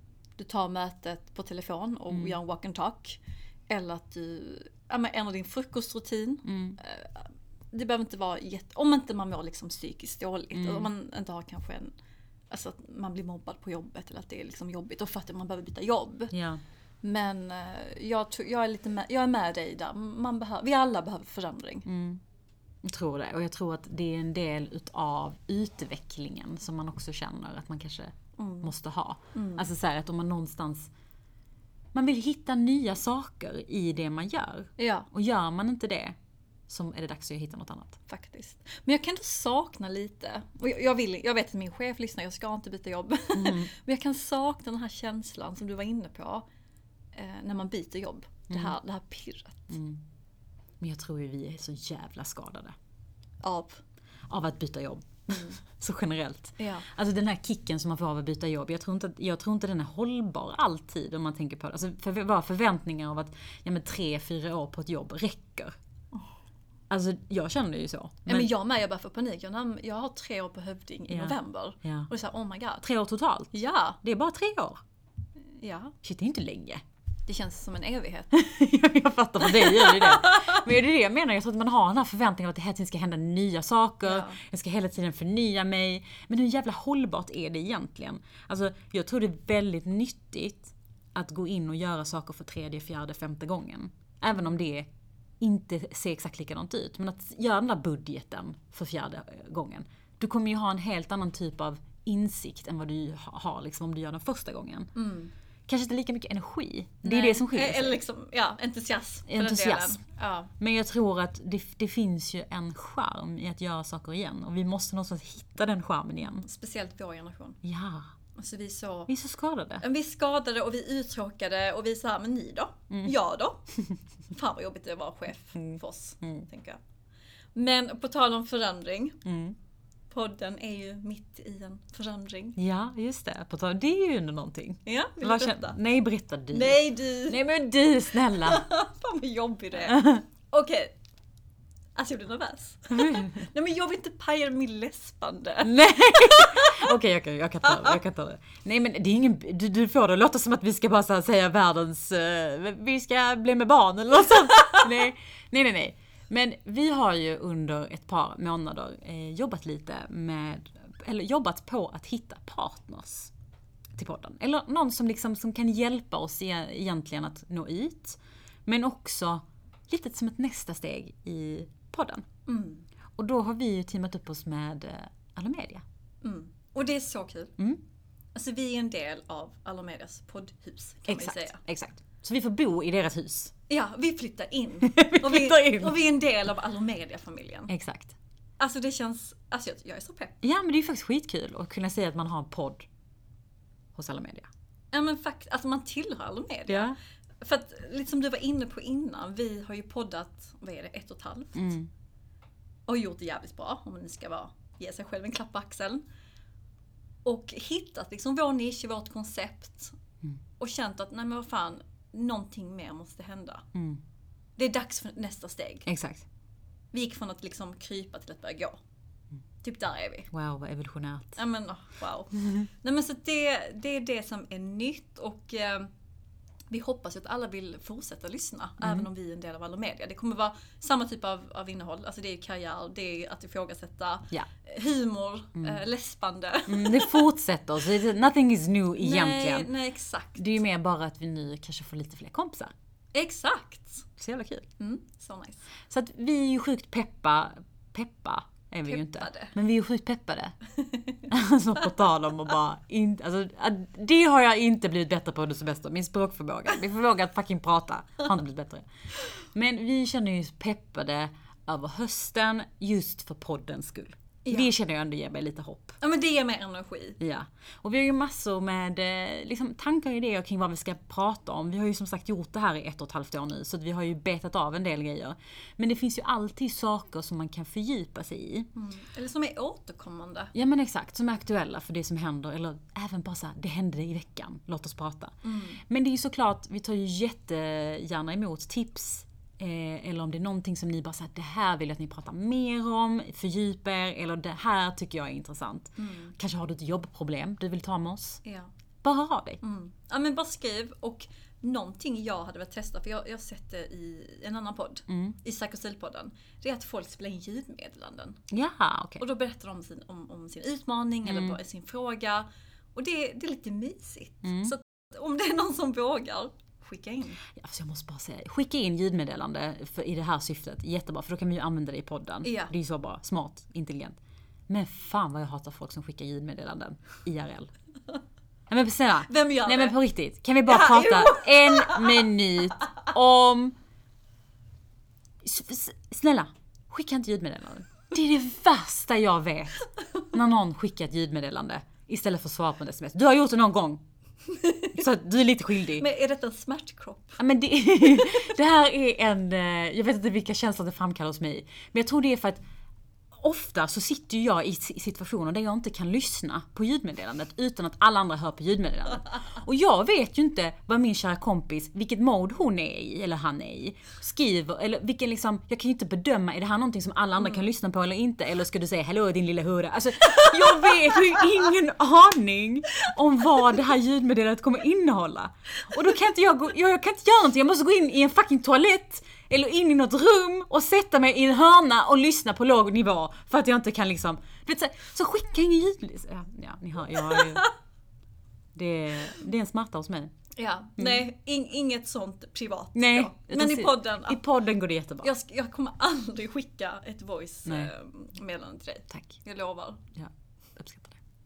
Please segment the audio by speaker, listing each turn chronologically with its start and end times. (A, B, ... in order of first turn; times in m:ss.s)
0:00.4-0:11.9 A
0:02.1-0:02.4 B
0:06.4-0:06.8 B
0:10.6-0:10.9 B
0:12.5-0:16.3 A
0:16.3-0:16.6 B
0:17.0-0:21.9 A
0:21.9-0:22.2 B
0:22.8-0:30.9 B
0:28.4-0:28.7 A
0:29.3-0:29.7 A
0:31.9-0:36.1 B
0:34.8-0:35.1 A
0:36.7-0:38.0 B
0:38.1-0:46.4 A
0:43.4-0:43.7 B
0:47.1-0:49.7 A
0:48.5-0:48.8 B
0:49.7-0:50.0 B
0:50.8-0:52.8 B
0:53.4-0:53.8 A
0:54.3-1:05.8 B
0:56.6-0:56.9 A
1:06.9-1:08.5 B
1:08.3-1:12.8 A
1:11.1-1:12.1 B
1:12.8-1:14.8 B
1:13.5-1:14.0 A
1:15.6-1:15.9 A
1:16.0-1:16.8 B
1:17.3-1:18.4 A
1:18.3-1:34.9 B
1:19.4-1:20.6 A
1:24.1-1:24.4 A
1:35.4-1:44.9 B
1:44.9-1:45.3 A
1:45.7-1:48.0 B
1:47.0-1:50.5 A
1:49.3-1:50.0 B
1:50.6-1:56.4 B
1:56.2-1:57.6 A
1:57.6-1:58.1 B
1:58.4-1:59.1 A
1:59.1-1:59.8 B
1:59.8-2:03.6 A
2:04.3-2:06.8 A
2:05.6-2:06.4 B
2:07.6-2:09.2 A
2:09.2-2:09.6 B
2:10.1-2:12.6 A
2:12.6-2:18.7 B
2:14.9-2:15.8 A
2:16.5-2:17.4 A
2:18.2-2:20.9 A
2:19.9-2:20.2 B
2:21.9-2:26.9 A
2:22.9-2:23.4 B
2:25.6-2:43.3 B
2:43.9-2:52.2 B
2:52.4-2:52.9 A
2:53.2-2:55.8 B
2:56.2-2:57.6 A
2:58.4-3:01.6 A
3:01.1-3:03.5 B
3:03.7-3:07.7 A
3:04.8-3:06.0 B
3:07.7-3:08.2 B
3:08.6-3:10.4 A
3:10.4-3:12.9 B
3:13.9-3:14.5 B
3:14.9-3:21.8 A
3:16.7-3:17.0 B
3:21.6-3:21.9 B
3:22.9-3:26.0 A
3:27.2-3:29.9 A
3:30.6-3:33.7 A
3:33.7-3:34.0 B
3:34.6-3:35.9 A
3:35.9-3:36.3 B
3:36.9-3:38.8 A
3:39.6-3:40.3 A
3:40.3-3:41.4 B
3:41.4-3:45.9 A
3:46.7-3:57.3 A
3:48.8-3:49.1 B
3:56.7-3:59.7 B
3:59.0-4:00.6 A
4:00.4-4:02.7 B
4:03.1-4:04.1 A
4:04.2-4:04.7 B
4:04.8-4:05.6 A
4:05.9-4:10.6 B
4:08.9-4:09.5 A
4:10.8-4:11.3 A
4:11.3-4:26.0 B
4:24.4-4:24.7 A
4:26.0-4:27.2 A
4:27.2-4:38.7 B
4:38.8-4:40.5 A
4:40.5-4:58.4 B
4:45.4-4:45.8 A
4:56.0-4:56.4 A
4:59.0-4:59.6 B
4:59.6-5:08.4 A
5:05.1-5:05.4 B
5:08.5-5:09.2 B
5:09.2-5:17.4 A
5:11.2-5:11.6 B
5:14.4-5:14.8 B
5:17.5-5:24.2 B
5:22.4-5:22.7 A
5:24.7-5:27.7 B
5:28.7-5:33.8 B
5:29.3-5:30.0 A
5:30.7-5:32.2 A
5:35.4-5:44.0 B
5:44.5-5:44.9 A
5:44.9-5:46.1 B
5:45.9-5:47.4 A
5:47.4-5:52.6 B
5:53.4-6:27.7 B
6:07.4-6:07.7 A
6:10.3-6:11.4 A
6:27.3-6:27.7 A
6:28.7-6:30.3 B
6:30.6-6:34.4 A
6:31.0-6:31.2 B
6:32.9-6:35.3 B
6:35.2-6:40.0 A
6:39.1-6:39.4 B
6:40.1-6:41.2 B